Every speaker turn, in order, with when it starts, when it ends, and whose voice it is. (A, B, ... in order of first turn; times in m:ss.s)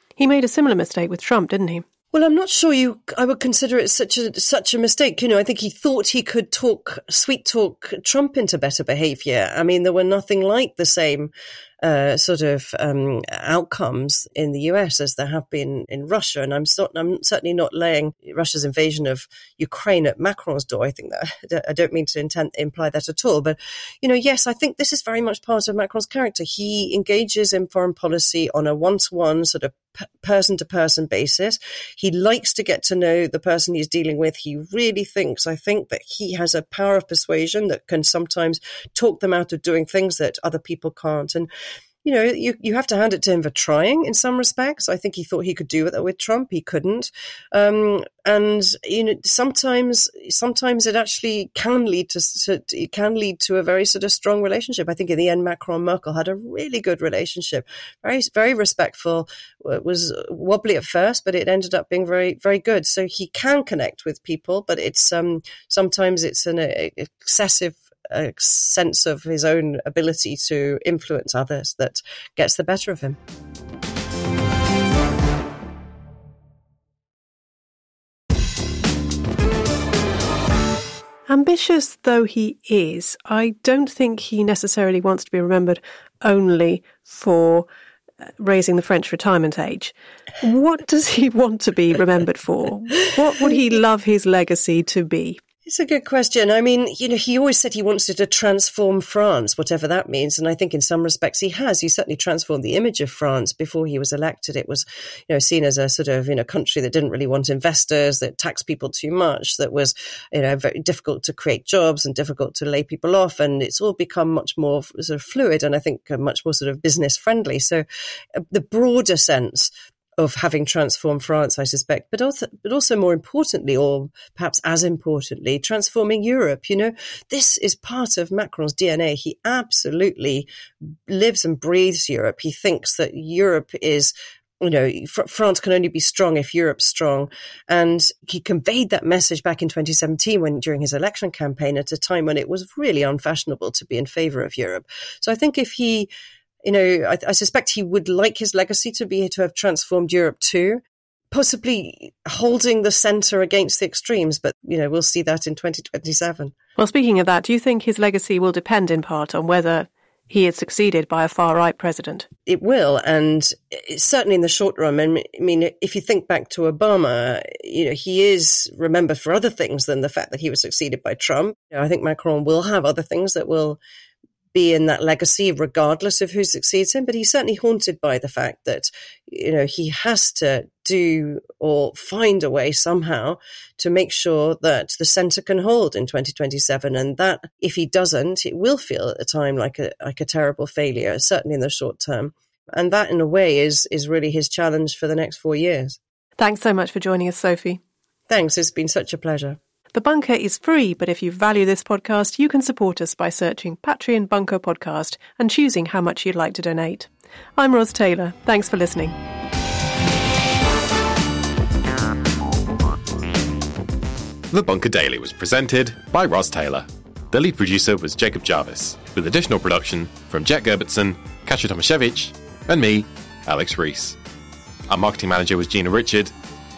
0:00.2-0:01.8 A
0:02.1-0:11.3 B
0:11.8-0:41.5 B
0:42.0-1:13.2 B
1:21.3-1:27.7 A
1:28.4-1:35.4 A
1:35.7-1:57.8 B
1:58.4-2:10.5 B
2:11.1-2:26.1 B
2:26.6-2:36.5 B
2:36.8-2:42.3 A
2:42.5-2:53.8 B
2:54.5-3:16.0 B
3:16.4-3:17.8 A
3:18.3-3:19.6 B
3:19.9-3:29.2 A
3:34.5-3:44.2 C
3:44.9-3:46.3 C